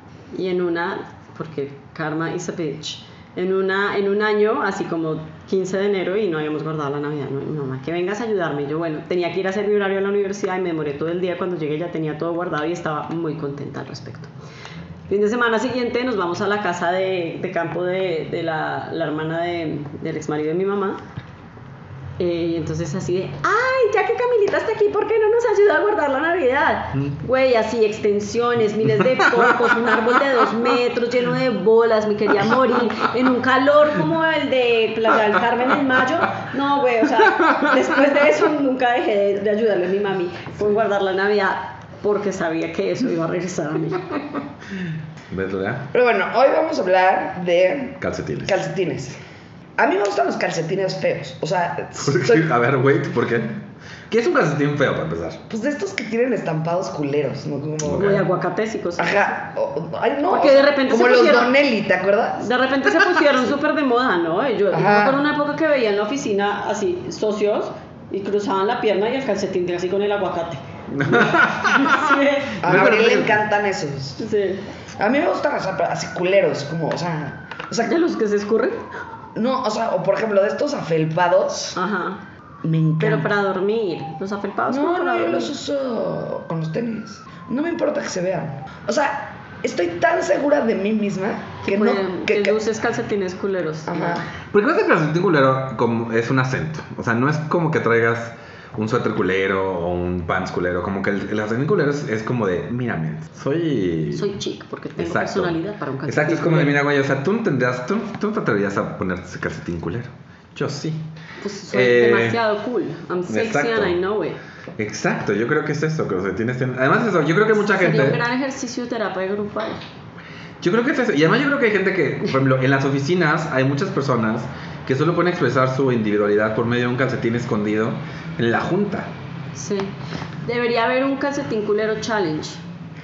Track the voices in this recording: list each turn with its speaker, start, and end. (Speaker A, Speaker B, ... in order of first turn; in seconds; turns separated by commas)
Speaker A: 0.3-14.3, Speaker A: 15.1-21.0, Speaker A: 22.2-44.2, Speaker B: 29.4-29.6, Speaker B: 45.3-45.9, Speaker C: 45.9-49.2, Speaker B: 48.0-48.5, Speaker C: 49.8-52.5, Speaker B: 52.0-53.6, Speaker B: 54.1-55.4, Speaker C: 55.5-58.2, Speaker B: 57.8-58.2, Speaker A: 57.9-59.3, Speaker C: 59.0-62.5, Speaker A: 60.3-61.6, Speaker A: 62.4-72.6, Speaker C: 64.7-65.2, Speaker B: 70.9-73.4, Speaker C: 72.6-74.2, Speaker A: 74.2-74.6, Speaker C: 75.0-77.9, Speaker A: 77.8-78.9, Speaker C: 79.4-81.8, Speaker A: 81.8-82.2, Speaker C: 82.6-83.3, Speaker A: 83.0-85.5, Speaker C: 84.7-92.6, Speaker A: 91.6-94.2, Speaker C: 93.9-94.2, Speaker B: 94.5-104.3, Speaker A: 104.1-106.8, Speaker B: 105.0-111.0, Speaker A: 111.4-114.4, Speaker B: 111.7-112.4, Speaker B: 113.3-114.0, Speaker B: 114.8-118.2, Speaker A: 117.5-119.8, Speaker B: 120.6-129.1, Speaker A: 129.6-129.9, Speaker A: 130.4-132.6